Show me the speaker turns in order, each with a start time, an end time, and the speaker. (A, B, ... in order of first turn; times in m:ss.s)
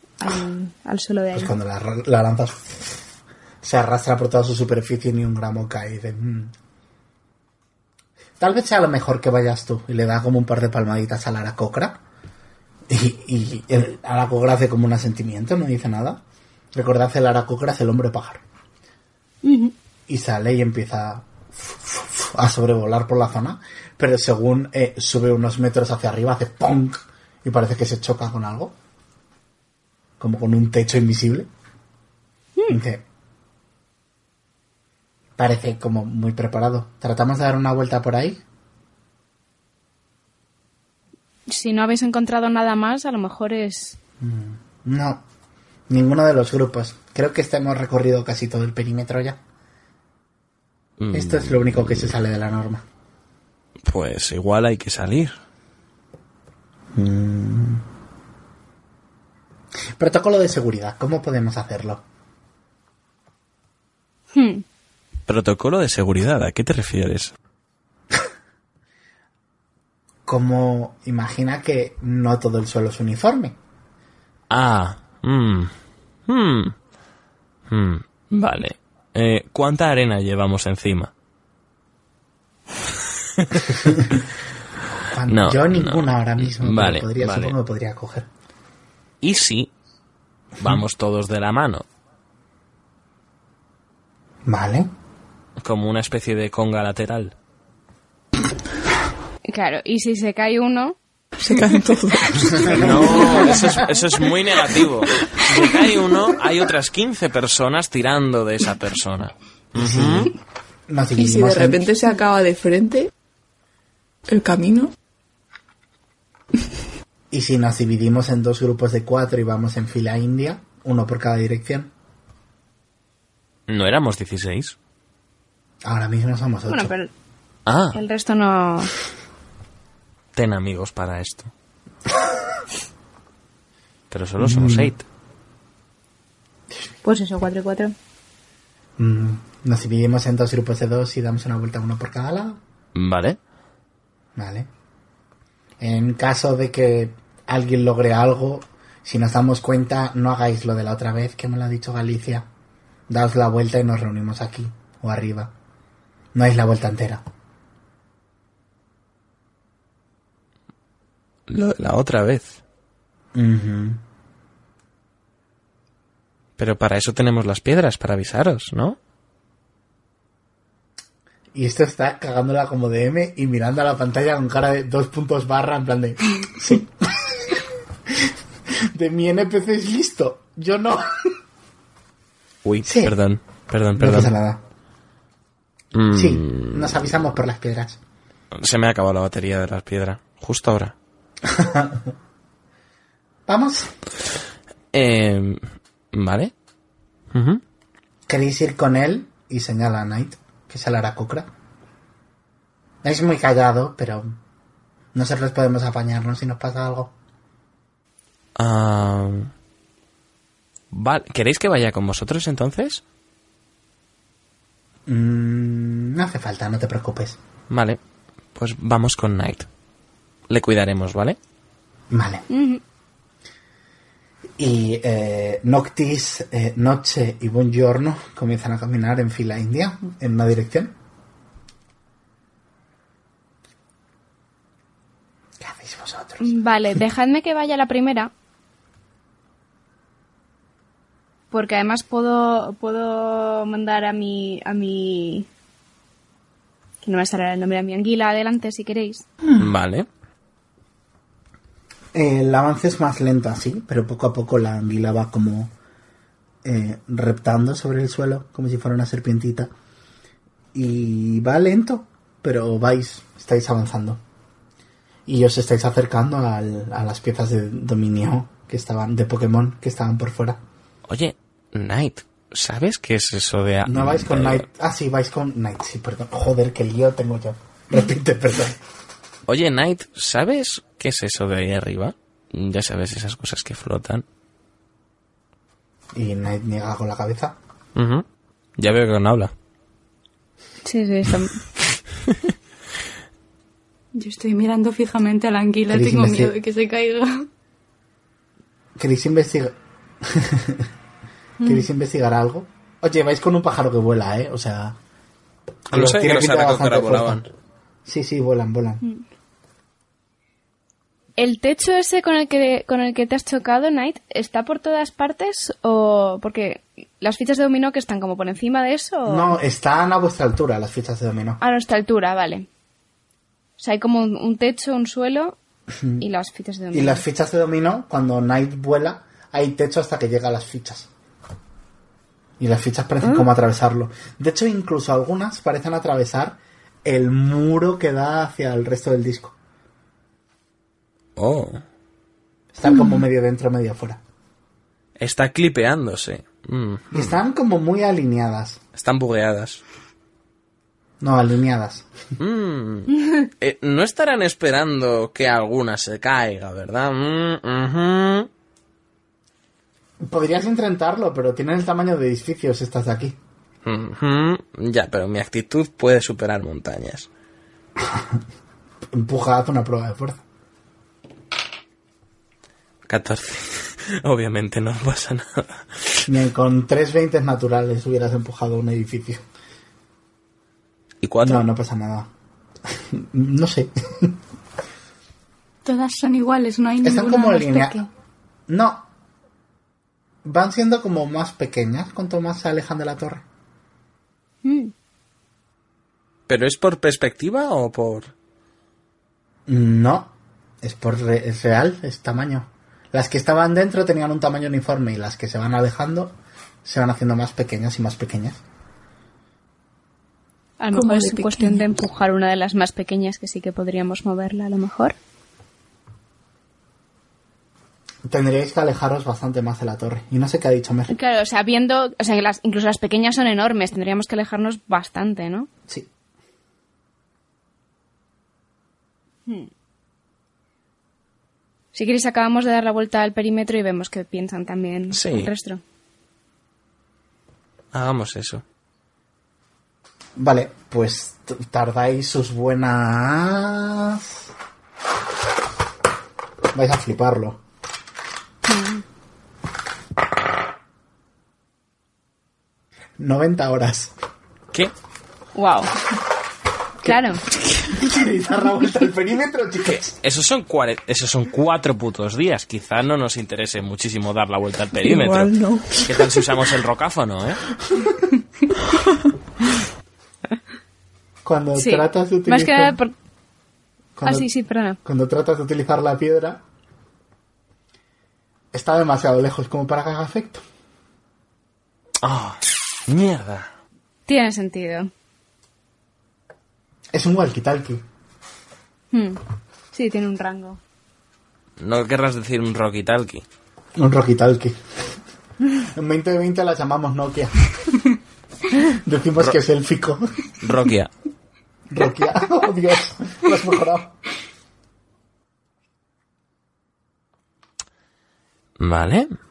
0:00.2-0:01.5 A
0:01.3-0:03.0 B
0:03.6-0:06.5 B
0:08.4-0:12.0 B
0:12.9-0:16.2 B
0:16.7-0:18.4 B
0:19.4-0:19.7 A
0:20.1-0:28.7 B
0:30.2-0:31.5 B
0:32.7-0:33.0 B
0:35.4-0:38.4 B
0:41.5-0:44.0 A
0:44.2-0:45.2 B
0:45.9-0:49.4 B
0:51.0-0:52.1 C
0:51.1-0:52.8 B
0:53.9-0:55.4 C
0:56.9-0:57.8 B
1:00.0-1:02.0 B
1:04.3-1:04.6 A
1:05.3-1:07.3 C
1:10.2-1:13.6 B
1:14.5-1:15.7 C
1:16.3-1:16.7 C
1:17.7-1:21.1 C
1:23.4-1:24.0 C
1:23.8-1:24.2 B
1:25.0-1:28.3 B
1:25.3-1:27.5 C
1:29.2-1:29.7 C
1:30.6-1:31.8 C
1:34.4-1:34.9 B
1:35.6-1:37.3 C
1:39.4-1:41.0 A
1:41.4-1:43.3 D
1:42.5-1:43.9 B
1:42.7-1:50.3 C
1:49.7-1:50.3 B
1:50.9-1:51.9 B
1:51.2-1:53.1 D
1:54.3-1:54.9 D
1:57.3-2:01.9 B
2:03.7-2:04.8 C
2:05.8-2:06.9 B
2:06.7-2:07.1 A
2:07.6-2:08.0 C
2:07.9-2:08.9 A
2:10.3-2:11.5 C
2:14.1-2:15.0 C
2:14.4-2:14.9 B
2:17.0-2:17.9 A
2:19.0-2:22.6 B
2:22.9-2:23.4 C
2:24.4-2:24.7 B
2:25.8-2:32.5 B
2:33.1-2:35.5 B
2:36.3-2:37.2 B
2:41.5-2:42.6 C
2:43.3-2:44.0 B
2:46.6-2:49.0 C
2:51.5-2:58.3 B
2:58.9-3:01.3 B
3:02.6-3:04.3 C
3:02.8-3:03.1 B
3:04.0-3:04.6 B
3:05.9-3:07.0 C
3:06.1-3:08.0 B
3:08.5-3:10.9 C
3:11.4-3:12.1 B
3:13.5-3:13.9 B
3:14.9-3:15.6 C
3:16.1-3:16.5 C
3:17.3-3:17.6 C
3:18.3-3:21.5 B
3:23.0-3:24.4 B
3:25.1-3:27.1 B
3:28.6-3:29.5 C
3:30.9-3:33.0 C
3:35.1-3:37.4 B
3:37.7-3:38.0 C
3:38.5-3:39.7 C
3:40.5-3:41.4 C
3:42.1-3:42.4 B
3:42.5-3:42.8 A
3:44.6-3:50.9 B
3:55.6-3:56.6 B
3:56.4-3:58.3 A
4:01.5-4:05.5 A
4:07.0-4:09.2 A
4:09.6-4:10.1 C
4:12.1-4:15.7 B
4:16.6-4:19.7 B
4:20.7-4:24.2 B
4:25.2-4:30.6 B
4:31.1-4:34.6 C
4:33.8-4:38.8 B
4:39.5-4:44.2 C
4:46.1-4:47.6 B
4:48.0-4:48.2 C
4:48.8-4:49.5 C
4:50.8-4:51.6 A
4:54.1-4:57.4 E
4:55.9-4:56.5 B
4:59.0-5:00.9 B
5:01.6-5:05.0 B
5:05.9-5:07.5 B
5:05.9-5:07.4 C
5:08.0-5:09.0 B
5:11.4-5:19.5 A
5:19.2-5:21.6 B
5:21.6-5:22.7 A
5:23.8-5:25.6 A
5:25.9-5:26.2 B
5:26.2-5:27.2 A
5:26.9-5:31.1 B
5:32.6-5:39.6 B
5:41.4-5:41.8 C
5:42.7-5:44.2 B
5:45.2-5:47.3 C
5:47.1-5:48.8 B
5:48.9-5:49.8 C
5:51.2-5:52.1 B
5:52.4-5:58.5 C
6:00.2-6:03.4 B
6:03.8-6:07.3 C
6:08.0-6:08.4 B
6:09.1-6:10.4 B
6:13.1-6:16.2 C
6:16.3-6:19.4 B
6:21.2-6:21.6 C
6:21.4-6:22.3 B
6:22.9-6:24.4 B
6:25.8-6:28.1 E
6:27.0-6:28.0 B
6:28.7-6:29.1 B
6:30.4-6:33.4 B
6:34.6-6:34.9 A
6:36.5-6:38.3 C
6:39.7-6:48.6 B
6:50.8-6:55.2 A
6:50.9-6:51.8 D
6:58.2-7:01.1 B
7:01.1-7:05.7 A
7:11.9-7:15.8 A
7:15.1-7:15.5 C
7:17.9-7:18.6 C
7:20.4-7:24.4 B
7:26.7-7:27.6 B
7:28.6-7:29.0 A
7:33.2-7:34.1 B
7:35.5-7:35.9 A
7:37.0-7:37.4 A
7:37.8-7:40.2 B
7:40.2-7:47.6 C
7:45.0-7:46.5 D
7:51.4-7:53.0 B
7:51.8-7:53.1 A
7:54.2-7:54.5 B
7:54.2-7:55.0 A
7:55.0-7:56.6 B
7:58.7-8:00.6 B
8:02.2-8:03.7 C
8:04.3-8:05.1 A
8:07.1-8:08.0 B
8:09.1-8:09.4 A
8:09.9-8:10.8 A
8:11.8-8:13.4 C
8:14.0-8:14.8 B
8:15.7-8:18.0 B
8:18.8-8:20.3 B
8:20.6-8:21.1 C
8:21.9-8:24.2 B
8:28.8-8:29.3 C